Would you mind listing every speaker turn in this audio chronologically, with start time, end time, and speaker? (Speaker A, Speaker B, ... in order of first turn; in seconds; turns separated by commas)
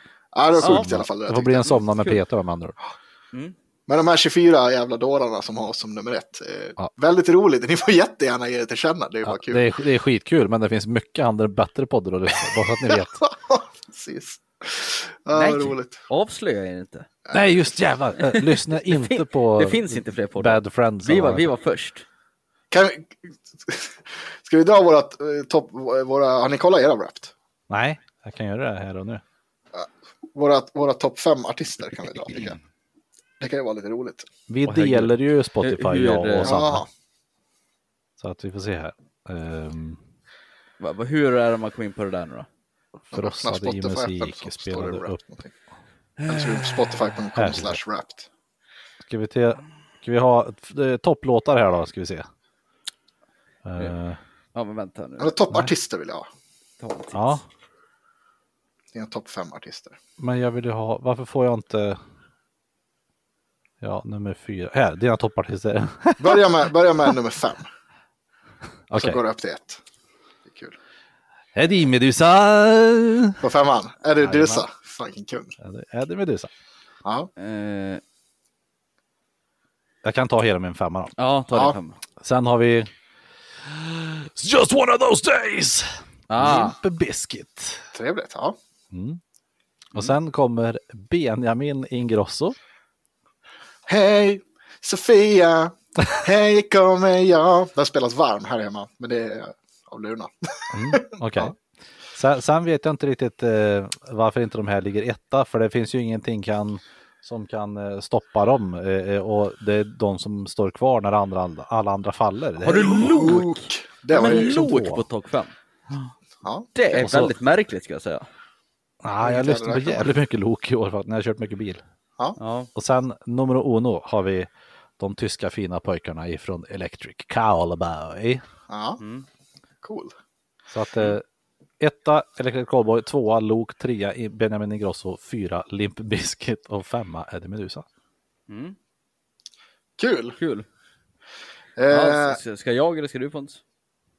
Speaker A: 0.3-1.8, Speaker B: 0.6-0.9, Speaker C: 0.6-2.8, Speaker A: 3.9-9.7, Speaker C: 9.2-13.2, Speaker A: 13.2-16.0, Speaker B: 15.3-17.1, Speaker A: 17.2-17.7, Speaker C: 17.3-21.5, Speaker B: 18.2-22.0, Speaker A: 22.7-27.3, Speaker C: 27.7-29.2, Speaker A: 29.7-32.6, Speaker A: 33.4-34.3, Speaker C: 34.5-36.8, Speaker B: 34.6-36.5, Speaker A: 36.4-36.9, Speaker C: 38.2-40.0, Speaker B: 40.8-42.5, Speaker C: 43.1-45.2, Speaker A: 43.1-45.5, Speaker B: 46.2-46.6, Speaker A: 46.3-48.3, Speaker C: 47.3-47.8, Speaker C: 49.0-52.3, Speaker C: 53.6-54.2, Speaker B: 54.5-55.3, Speaker A: 55.2-56.3, Speaker B: 56.8-57.4, Speaker C: 57.1-57.4, Speaker A: 58.9-60.0, Speaker C: 60.2-62.0, Speaker C: 63.8-66.5, Speaker A: 66.2-67.7, Speaker C: 68.9-69.2, Speaker A: 68.9-69.8, Speaker A: 70.5-70.7, Speaker C: 71.5-73.4, Speaker A: 73.4-75.5, Speaker C: 74.2-74.7, Speaker C: 75.6-76.5, Speaker A: 77.0-77.3, Speaker B: 77.4-78.0, Speaker C: 80.0-81.1, Speaker B: 81.2-82.0, Speaker C: 82.2-82.9, Speaker C: 83.6-87.8, Speaker B: 86.3-86.7, Speaker A: 87.9-88.6, Speaker C: 88.9-89.2, Speaker C: 89.9-92.6, Speaker A: 93.9-101.5, Speaker C: 100.7-101.5, Speaker C: 102.1-113.2, Speaker B: 112.6-116.1, Speaker A: 112.8-114.6, Speaker C: 114.1-115.0, Speaker A: 116.4-116.7, Speaker B: 116.7-118.3, Speaker C: 116.9-117.3, Speaker C: 119.0-121.8, Speaker A: 119.2-120.1, Speaker B: 122.4-122.7, Speaker C: 122.7-128.4, Speaker A: 128.7-129.0, Speaker B: 129.0-129.2, Speaker A: 129.8-130.1, Speaker C: 130.7-131.2, Speaker C: 131.8-137.8, Speaker B: 138.5-138.8, Speaker A: 140.0-140.4, Speaker B: 140.4-140.7, Speaker A: 141.8-142.4, Speaker B: 141.9-143.6